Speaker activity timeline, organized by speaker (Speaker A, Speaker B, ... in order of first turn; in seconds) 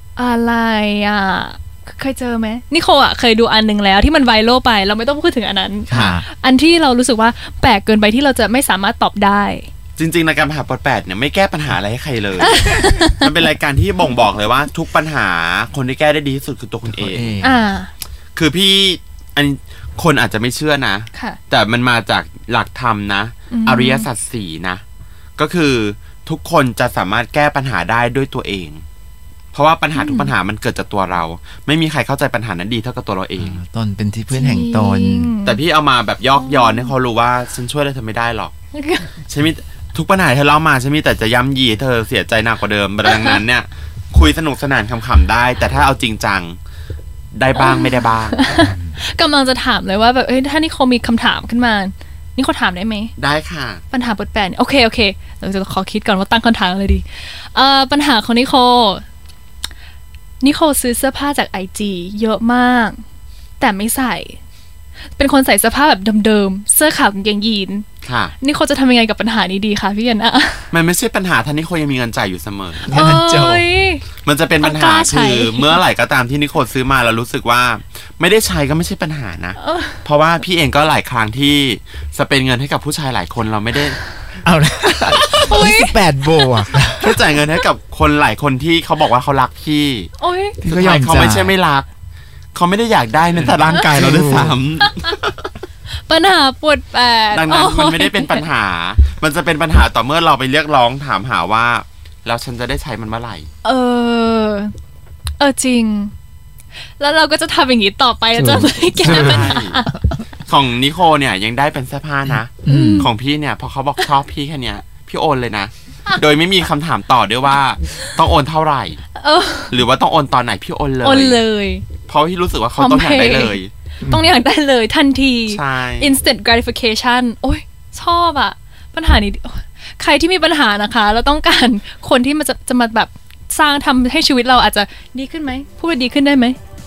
Speaker A: 0.2-9.7, 12.4-13.2, 17.4-17.9, 21.1-21.4, 23.5-24.1, 29.9-30.3, 34.3-35.6, 36.4-36.9, 38.7-39.1, 43.0-43.4, 47.6-53.1, 53.9-59.0, 60.4-63.0, 63.6-64.4, 65.1-67.9, 68.4-70.7, 72.9-74.1, 74.6-75.8, 79.6-80.0, 85.4-86.0, 90.2-90.6, 95.9-98.5, 103.6-104.7, 105.4-106.1, 107.0-109.9, 112.7-113.1, 119.2-119.7, 121.0-121.9, 122.8-136.6
Speaker B: 5.9-6.2, 16.9-17.7, 33.4-35.3, 48.5-49.0, 72.8-73.7, 84.4-87.3, 90.6-91.6, 93.3-94.6, 108.4-110.2, 112.3-113.1, 124.0-124.3
Speaker C: 5.9-6.2, 10.0-17.4, 18.4-24.8, 25.4-28.9, 29.5-33.6, 35.4-38.5, 39.2-46.6, 47.3-48.4, 53.2-53.8, 68.0-68.4, 70.7-73.0, 74.2-84.0, 87.0-91.9, 92.5-95.4, 97.3-103.5, 109.0-109.8, 110.5-119.0, 119.7-121.4, 122.1-123.7, 125.5-126.2